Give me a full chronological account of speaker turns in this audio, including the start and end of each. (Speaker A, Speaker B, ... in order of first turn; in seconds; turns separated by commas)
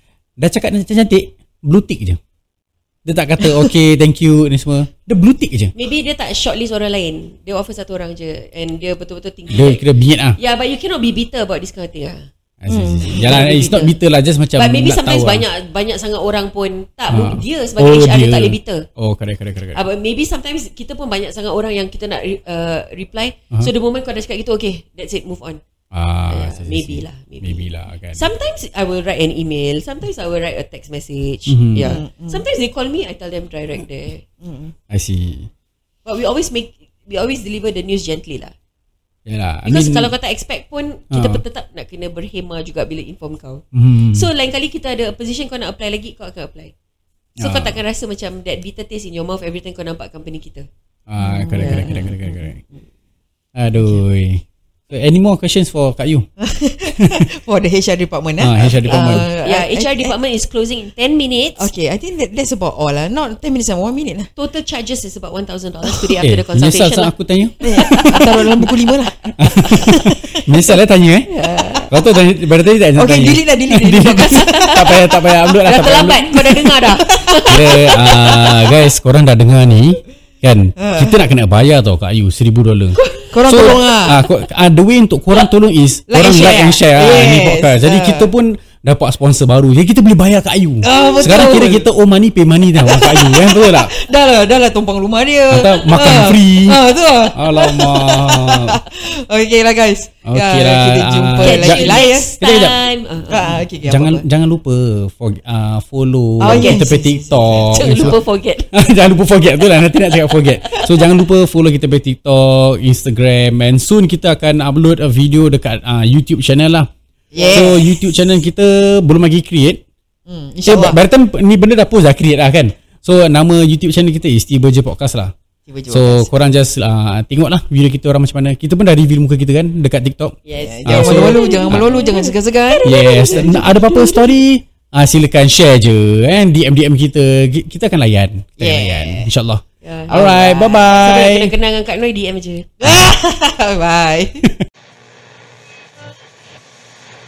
Speaker A: 0.4-2.2, Speaker A: 3.0-5.7, Speaker B: 3.4-3.7, Speaker C: 5.7-12.3, Speaker A: 9.5-10.4, Speaker A: 12.6-15.4, Speaker B: 12.7-13.5, Speaker C: 13.1-13.9, Speaker C: 14.5-18.9, Speaker A: 17.1-19.8, Speaker C: 19.7-25.6, Speaker A: 25.9-28.2, Speaker C: 26.3-34.2, Speaker A: 31.5-32.0, Speaker B: 31.8-32.4, Speaker B: 34.4-34.7, Speaker A: 34.9-35.5, Speaker C: 36.0-38.5, Speaker A: 39.2-40.1, Speaker C: 39.6-46.7, Speaker A: 41.1-41.4, Speaker A: 43.7-44.3, Speaker A: 47.4-47.8, Speaker C: 47.4-50.7, Speaker A: 51.1-52.6, Speaker B: 51.2-52.5, Speaker C: 51.5-52.1, Speaker A: 53.5-56.2, Speaker B: 56.4-60.1, Speaker A: 57.0-57.2, Speaker A: 58.4-59.3, Speaker C: 58.8-61.7, Speaker B: 61.5-64.3, Speaker C: 64.3-68.6, Speaker A: 66.1-68.4, Speaker B: 67.6-70.5, Speaker A: 69.4-71.3, Speaker C: 71.3-71.9, Speaker B: 71.3-71.8, Speaker A: 71.9-76.4, Speaker B: 72.9-78.2, Speaker C: 74.1-75.0, Speaker C: 75.6-78.7, Speaker A: 77.5-93.9, Speaker B: 80.8-81.2, Speaker C: 82.9-83.4, Speaker B: 83.3-84.2, Speaker B: 86.1-88.3, Speaker B: 90.8-91.9, Speaker C: 90.8-91.6, Speaker B: 92.8-102.3, Speaker A: 95.5-96.8, Speaker A: 97.3-98.8, Speaker A: 100.2-102.8, Speaker C: 101.4-103.6, Speaker B: 103.3-104.2, Speaker A: 103.8-108.2, Speaker B: 106.4-108.2, Speaker C: 106.4-106.8, Speaker C: 107.7-108.9, Speaker A: 108.7-116.9, Speaker C: 109.5-111.1, Speaker B: 117.3-117.9, Speaker C: 117.3-118.1, Speaker A: 117.5-119.8, Speaker B: 120.3-121.0, Speaker A: 120.6-125.3, Speaker B: 125.7-126.4, Speaker A: 125.9-132.1, Speaker C: 130.4-134.3, Speaker B: 130.6-133.6, Speaker A: 132.8-141.5, Speaker B: 138.6-139.0, Speaker C: 139.8-142.7, Speaker B: 140.1-140.8, Speaker B: 142.8-144.5, Speaker A: 142.8-143.1